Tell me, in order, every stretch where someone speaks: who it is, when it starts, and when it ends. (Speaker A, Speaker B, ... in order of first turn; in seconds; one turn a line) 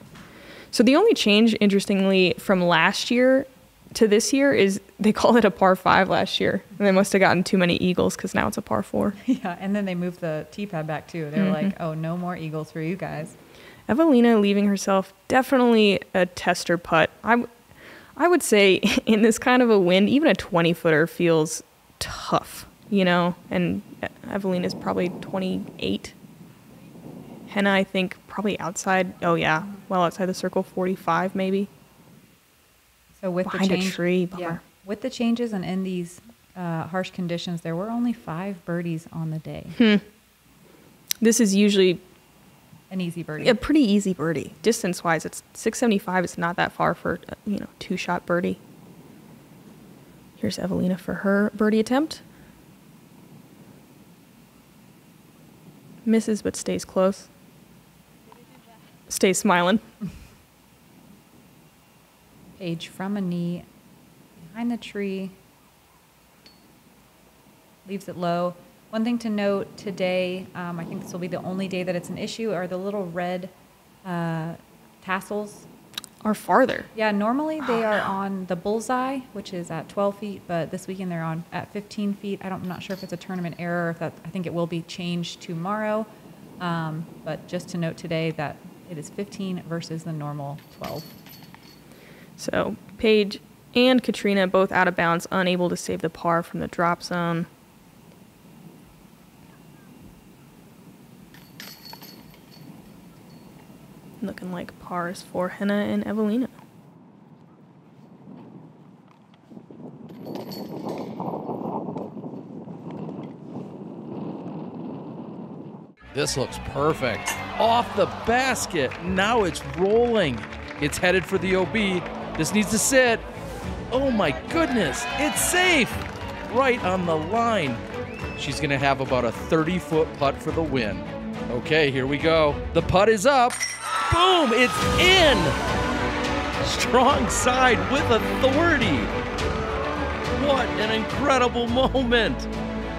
Speaker A: 0.7-9.2
Speaker B: 9.2-13.3
Speaker A: 11.3-11.7
Speaker A: 13.9-17.5
Speaker A: 18.2-26.1
Speaker A: 27.5-31.7
Speaker B: 33.2-39.8
Speaker A: 33.5-34.6
Speaker A: 39.8-40.0
Speaker A: 41.2-42.0
Speaker B: 42.9-43.6
Speaker A: 43.4-48.6
Speaker A: 50.4-52.2
Speaker A: 56.0-57.3
Speaker A: 59.1-59.8
Speaker B: 62.6-63.7
Speaker B: 64.4-65.4
Speaker B: 67.8-73.5
Speaker B: 74.0-75.7
Speaker A: 76.2-76.9
Speaker B: 77.0-86.1
Speaker A: 77.6-78.1
Speaker B: 86.6-91.1
Speaker A: 92.4-97.5
Speaker A: 104.2-106.5
Speaker C: 116.1-123.2
Speaker C: 123.9-127.8
Speaker C: 128.4-135.6
Speaker C: 136.6-139.1
Speaker C: 140.3-142.5